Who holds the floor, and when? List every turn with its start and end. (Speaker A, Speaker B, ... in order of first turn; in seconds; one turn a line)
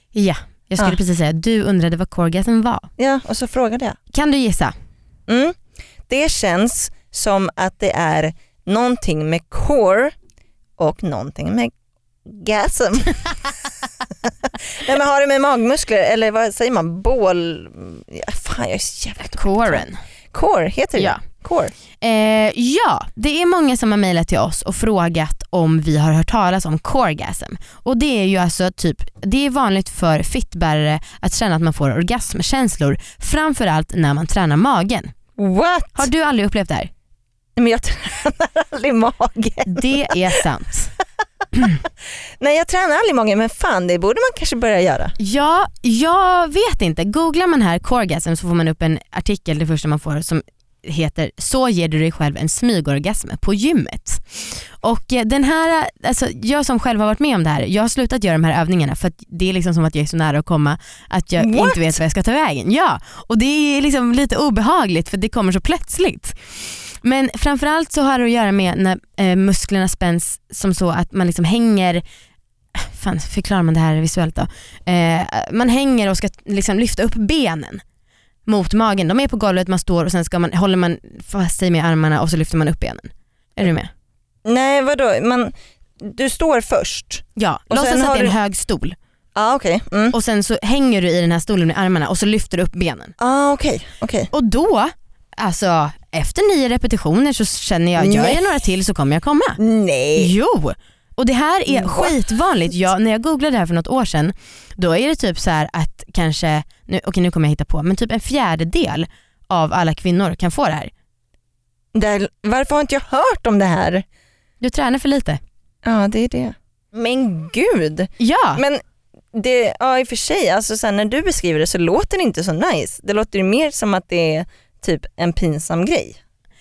Speaker A: 0.1-2.9
Speaker B: 3.0-4.0
Speaker A: 4.1-4.7
Speaker B: 5.3-5.6
Speaker B: 6.1-10.1
Speaker B: 10.8-11.7
Speaker B: 12.2-13.5
Speaker B: 14.5-21.7
Speaker A: 19.2-20.0
Speaker A: 22.0-35.1
Speaker B: 35.4-36.1
Speaker A: 36.0-36.9
Speaker B: 37.6-40.4
Speaker A: 39.7-40.9
Speaker A: 41.5-41.8
Speaker B: 42.4-45.1
Speaker A: 45.2-72.0
Speaker B: 61.4-62.0
Speaker A: 72.7-77.8
Speaker A: 78.5-83.9
Speaker B: 84.5-88.3
Speaker A: 87.4-89.0
Speaker B: 89.3-90.2
Speaker A: 90.1-93.1
Speaker B: 93.2-94.3
Speaker A: 94.3-99.6
Speaker B: 98.0-98.4
Speaker B: 99.6-100.3
Speaker A: 100.2-110.9
Speaker B: 101.7-102.2
Speaker B: 111.9-114.0
Speaker A: 114.6-115.4
Speaker B: 115.8-118.8
Speaker A: 118.2-118.6
Speaker B: 119.3-126.2